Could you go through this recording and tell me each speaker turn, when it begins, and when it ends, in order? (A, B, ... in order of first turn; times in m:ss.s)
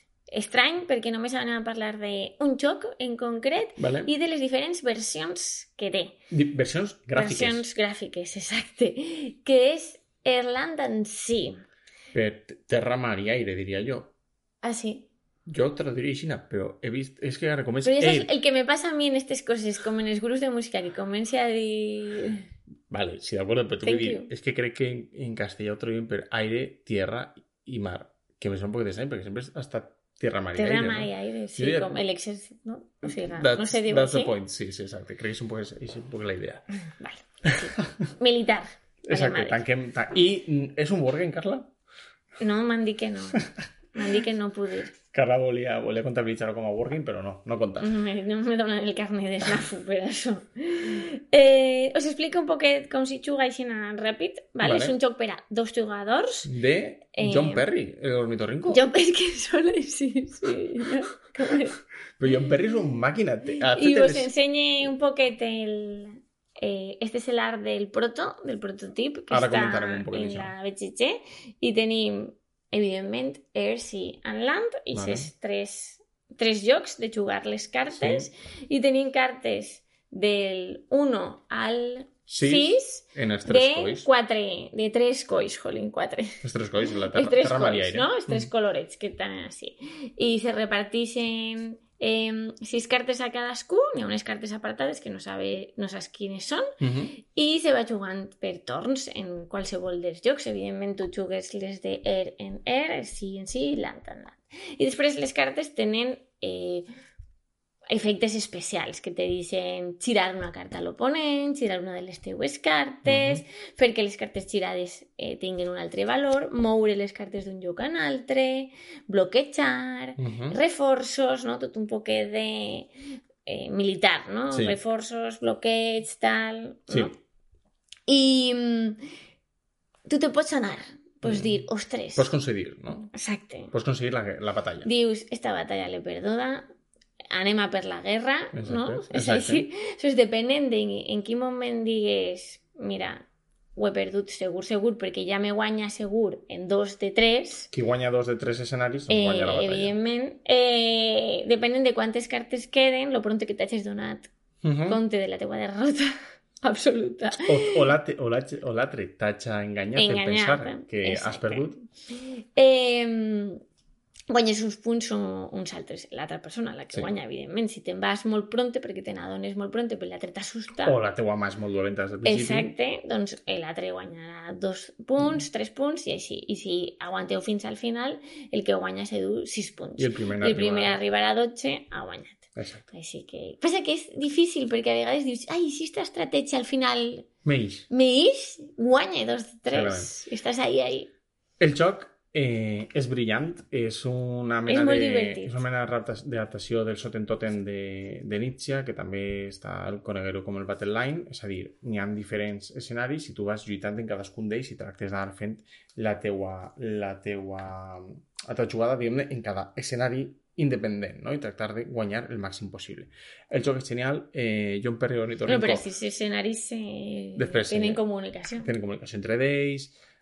0:00.3-0:06.1 A
0:03.8-0:04.1 B
0:06.3-0:07.6 B
0:07.1-0:11.6 A
0:12.1-0:14.1 B
0:14.6-0:15.1 A
0:15.4-0:18.3 B
0:17.8-0:22.4 A
0:22.9-0:31.9 B
0:23.8-0:24.3 A
0:30.5-0:34.3 A
0:33.0-0:36.6 B
0:36.8-0:39.6 A
0:39.1-0:41.7 B
0:42.4-0:43.4 A
0:43.9-0:44.9 A
0:45.1-0:47.9 B
0:47.8-0:56.5 A
0:54.6-0:55.0 B
0:56.4-0:58.8 B
0:57.2-0:57.6 A
0:58.7-1:01.8 A
1:02.2-1:04.3 B
1:03.7-1:36.7 A
1:09.3-1:10.5 B
1:14.9-1:15.3 B
1:17.9-1:18.3 B
1:22.3-1:24.1 B
1:26.4-1:28.5 B
1:36.8-1:37.2 B
1:37.2-1:46.9 A
1:47.9-2:02.9 A
1:53.0-1:53.4 B
2:00.2-2:00.6 B
2:03.4-2:07.1 A
2:04.5-2:04.8 B
2:08.1-2:09.0 A
2:10.1-2:12.3 A
2:11.2-2:13.1 B
2:13.1-2:13.7 A
2:13.7-2:14.9 B
2:14.8-2:16.6 A
2:17.3-2:27.7 A
2:18.5-2:19.6 B
2:27.7-2:29.9 B
2:29.1-2:34.3 A
2:34.6-2:35.0 B
2:34.9-2:37.9 A
2:37.4-2:41.8 B
2:40.0-2:43.6 A
2:44.3-2:51.0 A
2:50.8-2:52.7 B
2:52.2-3:07.3 A
3:00.0-3:01.0 B
3:02.6-3:02.9 B
3:07.4-3:07.9 B
3:07.9-3:11.1 A
3:09.7-3:10.1 B
3:11.6-3:35.8 B
3:14.7-3:15.6 A
3:35.4-3:38.7 A
3:37.4-3:38.0 B
3:38.6-3:40.0 B